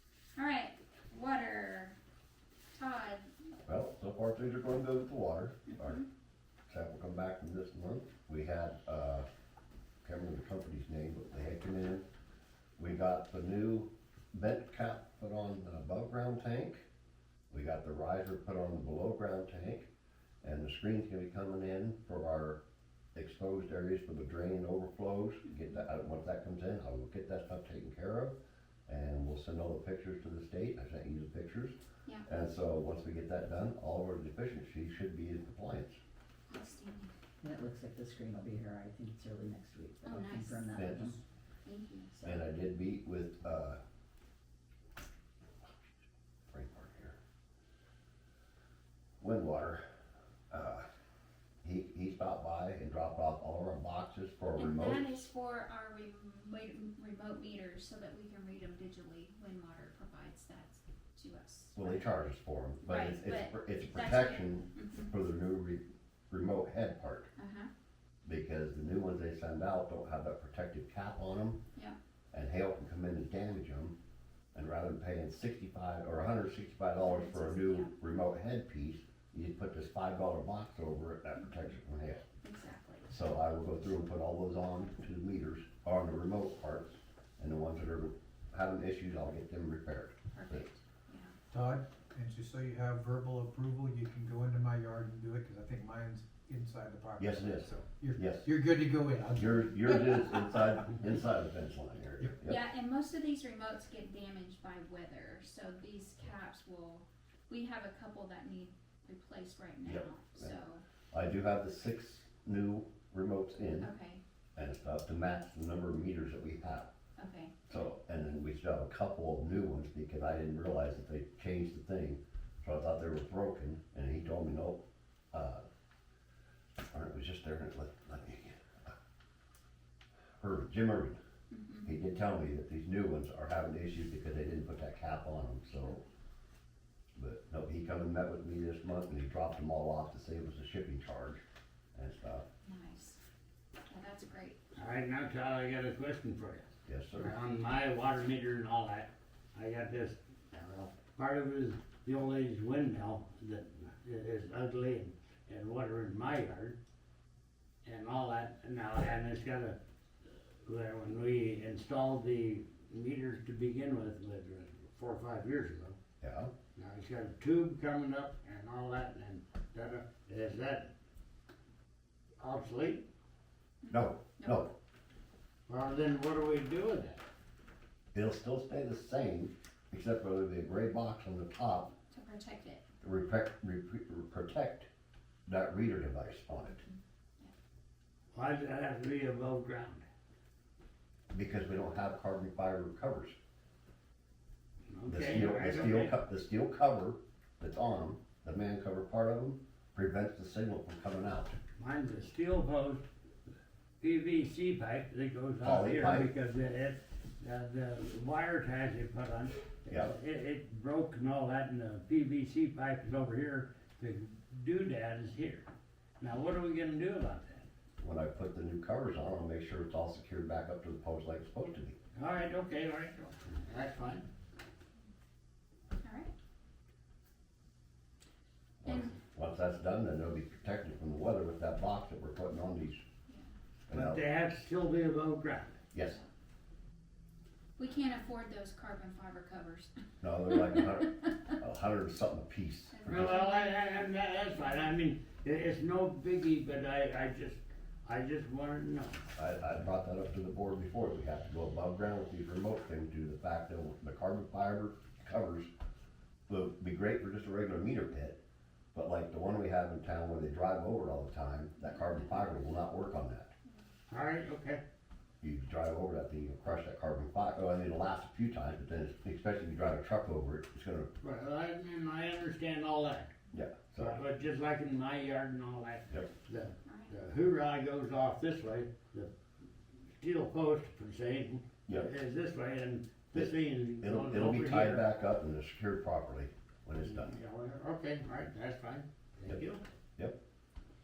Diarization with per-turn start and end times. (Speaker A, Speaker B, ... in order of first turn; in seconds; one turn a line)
Speaker A: 0.3-1.9
Speaker A: 2.7-3.3
Speaker B: 3.7-6.0
Speaker A: 5.7-6.1
Speaker B: 6.7-9.3
Speaker B: 10.0-12.1
Speaker B: 12.8-16.8
Speaker B: 17.5-19.9
Speaker B: 20.4-22.6
Speaker B: 23.1-28.3
Speaker B: 28.9-31.7
Speaker B: 32.2-36.0
Speaker A: 36.5-37.1
Speaker C: 37.4-41.2
Speaker A: 40.0-42.4
Speaker B: 40.8-41.1
Speaker B: 42.2-43.8
Speaker B: 46.5-47.2
Speaker B: 49.2-49.8
Speaker B: 50.5-50.8
Speaker B: 51.6-55.2
Speaker A: 54.6-62.1
Speaker B: 61.8-67.3
Speaker A: 62.8-65.1
Speaker A: 67.4-67.7
Speaker B: 68.2-71.6
Speaker B: 72.3-73.9
Speaker B: 74.5-82.2
Speaker A: 77.0-77.9
Speaker A: 82.4-83.0
Speaker B: 83.1-90.6
Speaker A: 90.3-91.3
Speaker D: 91.5-100.4
Speaker B: 97.2-98.5
Speaker B: 99.3-102.6
Speaker A: 102.4-110.8
Speaker B: 109.8-110.5
Speaker B: 111.1-113.9
Speaker A: 113.8-114.2
Speaker B: 114.5-116.9
Speaker A: 117.2-117.9
Speaker B: 117.7-124.8
Speaker B: 125.3-125.6
Speaker B: 126.9-128.9
Speaker B: 130.4-131.2
Speaker A: 131.5-131.9
Speaker B: 131.8-136.0
Speaker B: 137.1-141.4
Speaker B: 141.9-142.4
Speaker A: 142.6-143.2
Speaker A: 143.9-144.6
Speaker E: 144.7-156.8
Speaker B: 146.9-147.3
Speaker E: 157.8-159.8
Speaker E: 160.6-166.0
Speaker B: 166.2-166.5
Speaker E: 166.7-170.9
Speaker E: 172.4-173.0
Speaker A: 173.8-174.7
Speaker B: 173.9-174.7
Speaker E: 175.7-177.2
Speaker B: 178.1-181.9
Speaker A: 182.1-182.8
Speaker B: 183.0-184.9
Speaker B: 185.5-186.8
Speaker E: 188.3-190.0
Speaker B: 191.3-193.3
Speaker E: 194.9-196.2
Speaker B: 195.1-201.6
Speaker E: 201.8-203.0
Speaker E: 204.0-215.7
Speaker B: 205.6-206.3
Speaker E: 216.2-217.7
Speaker B: 218.0-221.9
Speaker E: 222.1-224.2
Speaker A: 226.0-226.3
Speaker B: 228.8-233.0
Speaker A: 228.8-229.1
Speaker A: 233.3-233.5
Speaker B: 233.9-234.2
Speaker E: 233.9-235.8
Speaker B: 235.9-236.2
Speaker A: 237.8-240.0
Speaker B: 240.2-243.4
Speaker A: 240.5-241.5
Speaker A: 242.9-244.1
Speaker E: 243.1-249.2
Speaker B: 249.3-255.7
Speaker B: 256.5-258.4
Speaker B: 258.9-263.5
Speaker A: 261.8-262.6
Speaker E: 264.1-264.8
Speaker B: 265.4-271.1
Speaker E: 271.2-273.3
Speaker B: 273.5-274.2
Speaker E: 274.0-279.3
Speaker A: 276.8-277.1
Speaker E: 280.2-285.0
Speaker B: 284.0-287.3
Speaker E: 287.0-289.8